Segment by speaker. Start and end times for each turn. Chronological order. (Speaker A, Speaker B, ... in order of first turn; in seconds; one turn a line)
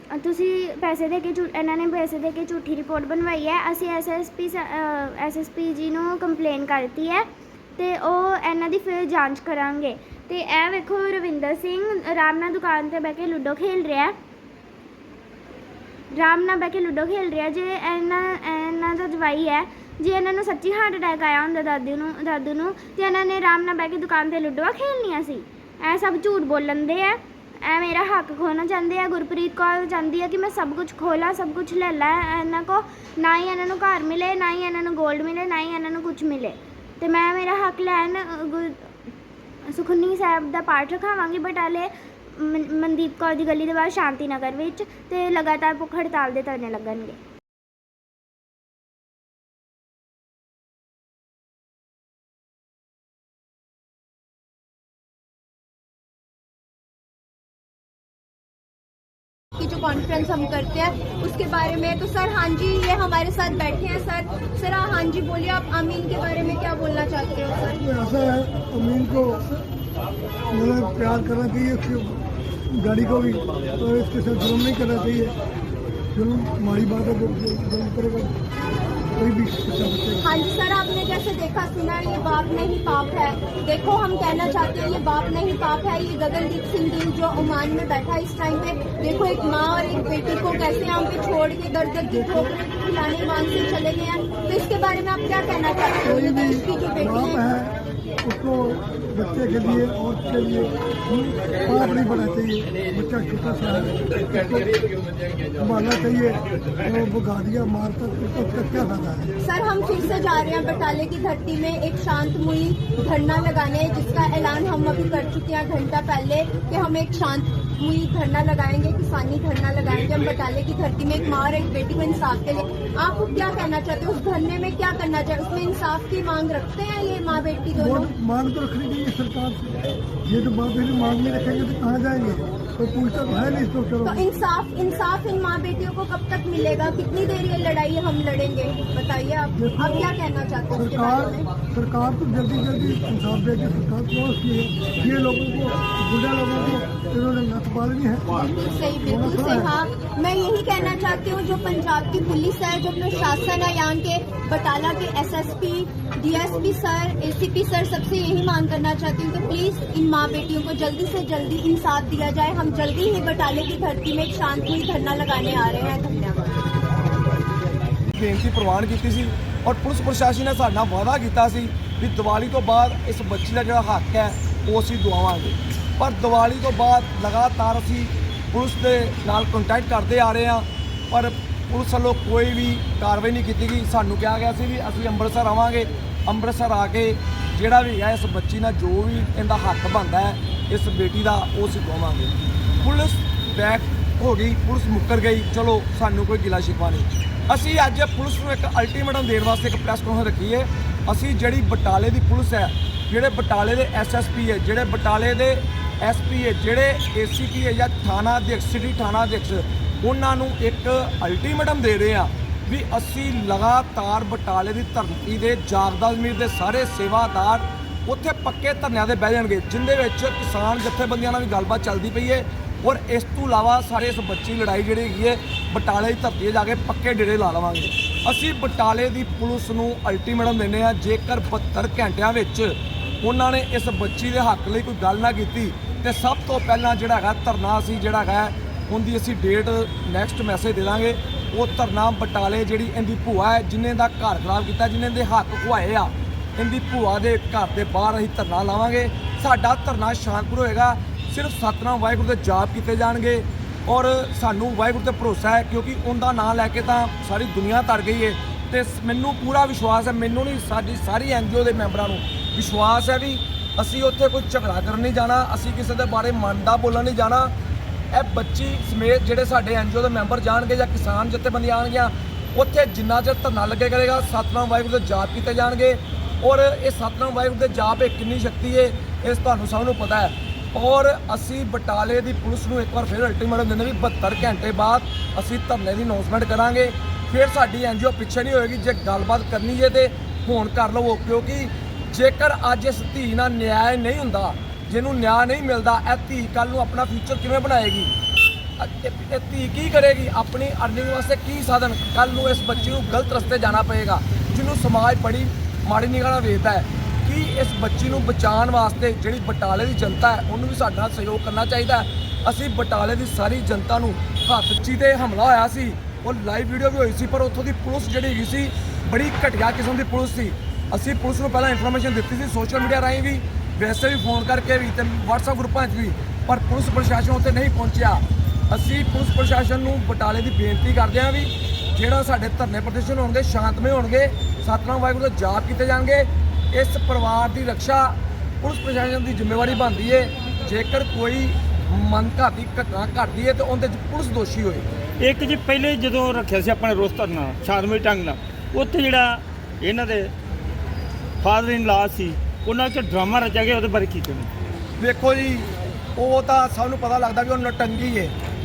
Speaker A: 0.1-7.2
Speaker A: 7.8-14.1
Speaker A: 16.1-38.9
Speaker A: 39.7-47.2
Speaker B: 59.6-67.8
Speaker C: 67.8-69.6
Speaker C: 70.5-72.2
Speaker C: 72.7-75.3
Speaker C: 76.1-78.4
Speaker C: 79.2-80.2
Speaker B: 80.2-97.4
Speaker C: 92.0-92.5
Speaker C: 96.0-104.7
Speaker C: 105.6-109.3
Speaker B: 109.4-128.1
Speaker C: 127.7-134.2
Speaker B: 134.0-141.5
Speaker C: 139.5-140.1
Speaker C: 140.7-148.3
Speaker B: 148.3-166.7
Speaker C: 149.0-149.7
Speaker D: 168.1-267.5
Speaker D: 268.1-298.1
Speaker D: 298.8-344.9
Speaker E: 345.2-350.3
Speaker E: 351.4-354.5
Speaker D: 355.0-358.3